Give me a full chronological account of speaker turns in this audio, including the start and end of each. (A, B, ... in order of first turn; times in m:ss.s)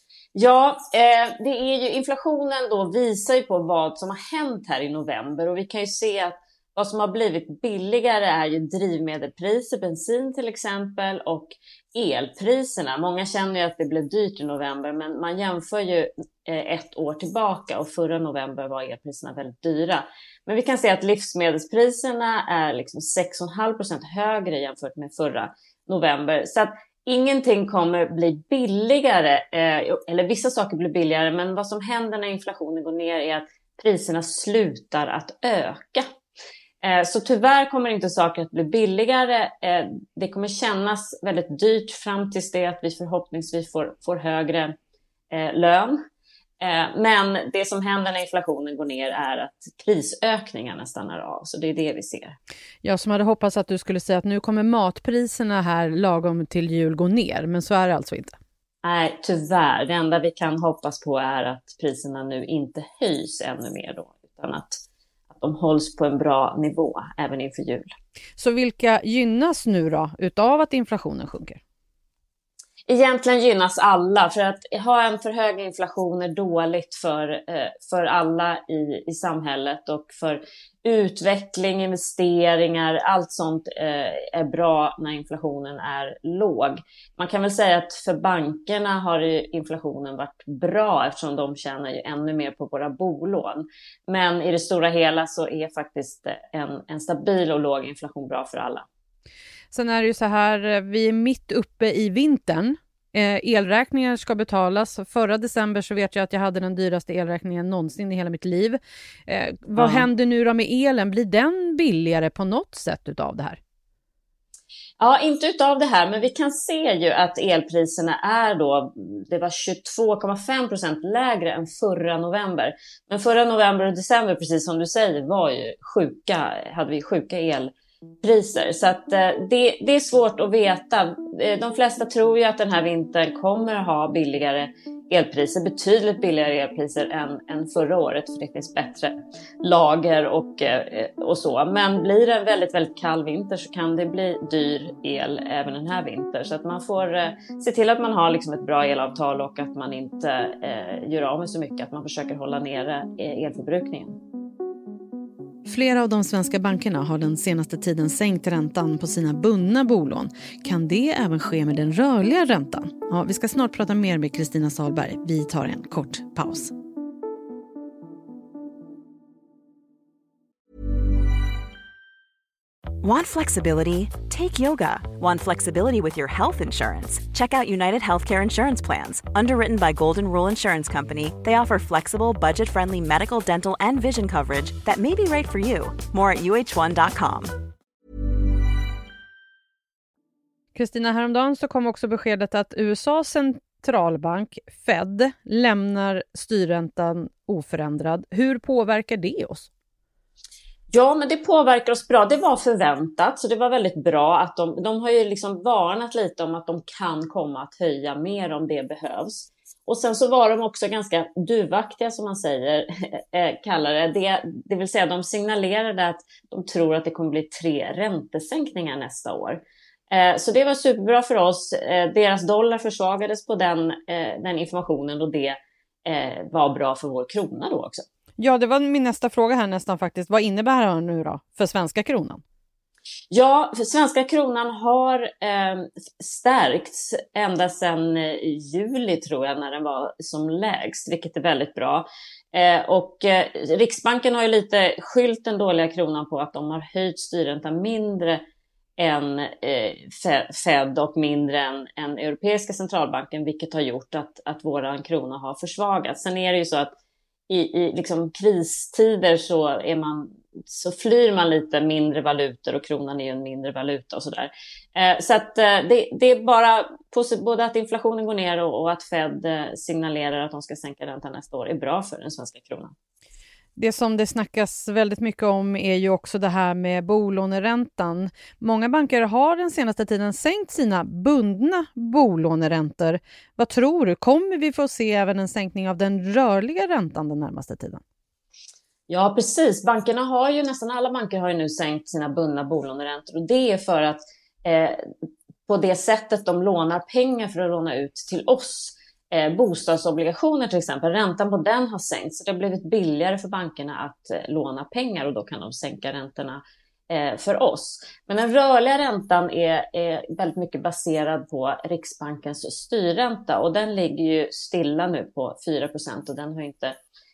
0:00.3-0:36.0 A
0:36.8-0:44.7 A
0:45.3-0:46.0 A
0:46.6-0:52.4 A
0:52.8-0:58.4 B
0:58.8-1:07.9 A
1:08.4-1:11.6 B
1:12.9-1:38.8 A
1:39.7-1:53.6 B
1:49.8-1:50.1 A
1:55.0-2:34.2 A
2:35.6-2:46.7 B
2:53.0-3:07.5 C
3:10.7-3:19.7 B
3:20.9-3:48.0 A
3:48.4-3:52.4 B
3:53.3-4:08.4 A
4:09.0-4:16.9 A
4:17.5-4:32.9 A
4:33.8-4:48.0 B
4:49.1-4:55.0 A
4:55.7-5:16.9 A